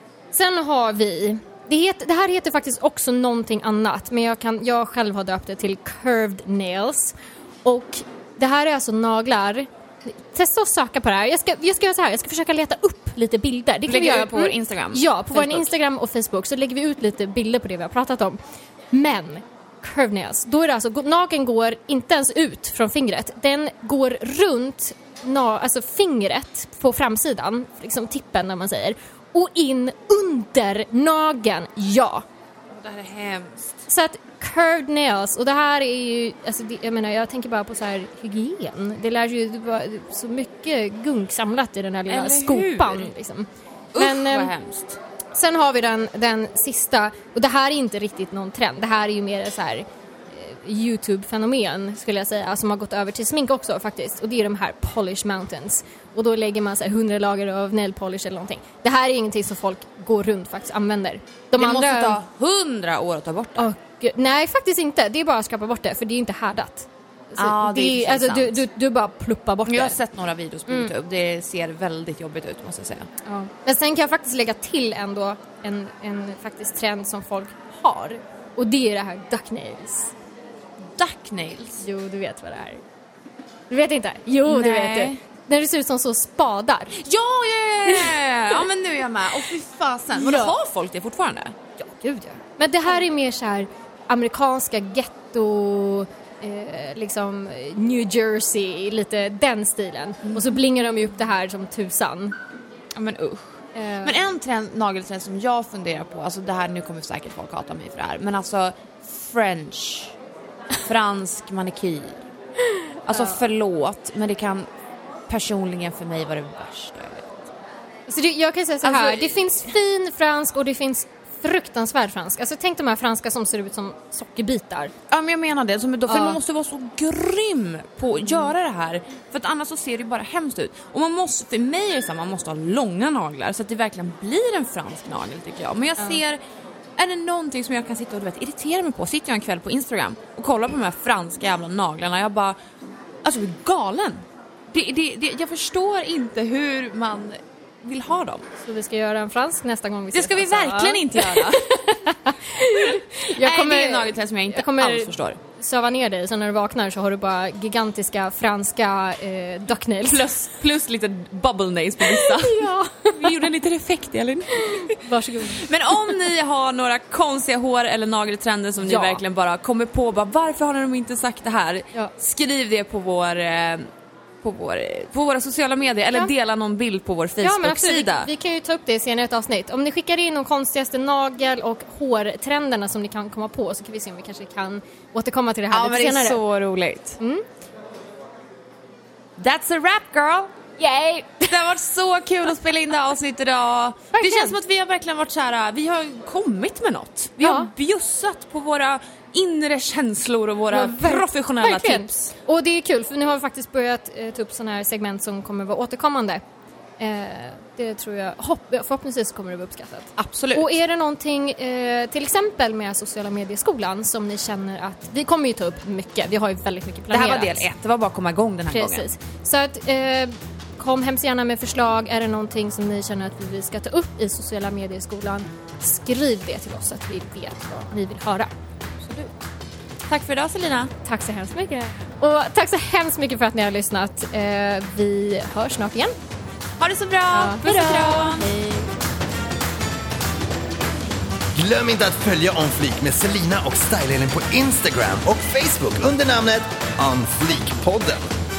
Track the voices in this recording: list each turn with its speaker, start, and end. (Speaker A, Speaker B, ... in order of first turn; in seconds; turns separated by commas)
Speaker A: 0.3-18.4, Speaker B: 13.9-15.7, Speaker A: 18.9-32.2, Speaker B: 32.7-33.8, Speaker A: 33.9-44.5, Speaker B: 42.1-43.1, Speaker B: 43.9-45.0, Speaker A: 45.3-62.2, Speaker B: 61.5-63.6, Speaker A: 63.6-70.0, Speaker B: 67.4-68.6, Speaker B: 69.7-73.1, Speaker A: 70.7-70.9, Speaker A: 73.2-80.1, Speaker B: 80.8-81.8, Speaker A: 81.8-82.8, Speaker A: 83.7-87.0, Speaker B: 84.5-85.2, Speaker B: 86.9-91.6, Speaker A: 87.9-88.6, Speaker A: 90.2-90.5, Speaker A: 91.8-102.3, Speaker B: 100.3-100.6, Speaker B: 102.9-110.2, Speaker A: 103.7-104.2, Speaker B: 110.8-112.3, Speaker A: 112.7-113.4, Speaker B: 113.1-114.7, Speaker B: 115.3-117.5, Speaker A: 118.1-124.9, Speaker B: 118.8-119.6, Speaker B: 125.1-136.4, Speaker A: 126.1-126.4, Speaker B: 137.0-142.6, Speaker B: 143.2-148.5, Speaker A: 148.6-160.5, Speaker B: 150.1-151.9, Speaker B: 152.6-155.4, Speaker B: 160.1-173.9, Speaker A: 162.0-163.5, Speaker A: 164.6-166.1, Speaker A: 168.8-169.2, Speaker B: 174.4-178.3, Speaker A: 177.4-186.4, Speaker B: 185.7-187.2, Speaker A: 187.2-187.4, Speaker B: 189.4-190.5, Speaker A: 190.8-191.6, Speaker B: 191.5-202.3, Speaker A: 194.1-194.6, Speaker A: 197.4-197.7, Speaker A: 200.7-206.4, Speaker A: 207.0-217.7, Speaker B: 210.2-210.7, Speaker B: 217.1-219.1, Speaker A: 218.7-228.5, Speaker B: 229.0-229.3, Speaker B: 230.1-230.9, Speaker A: 231.0-236.2, Speaker B: 236.8-238.5, Speaker A: 237.3-238.9, Speaker C: 241.6-248.3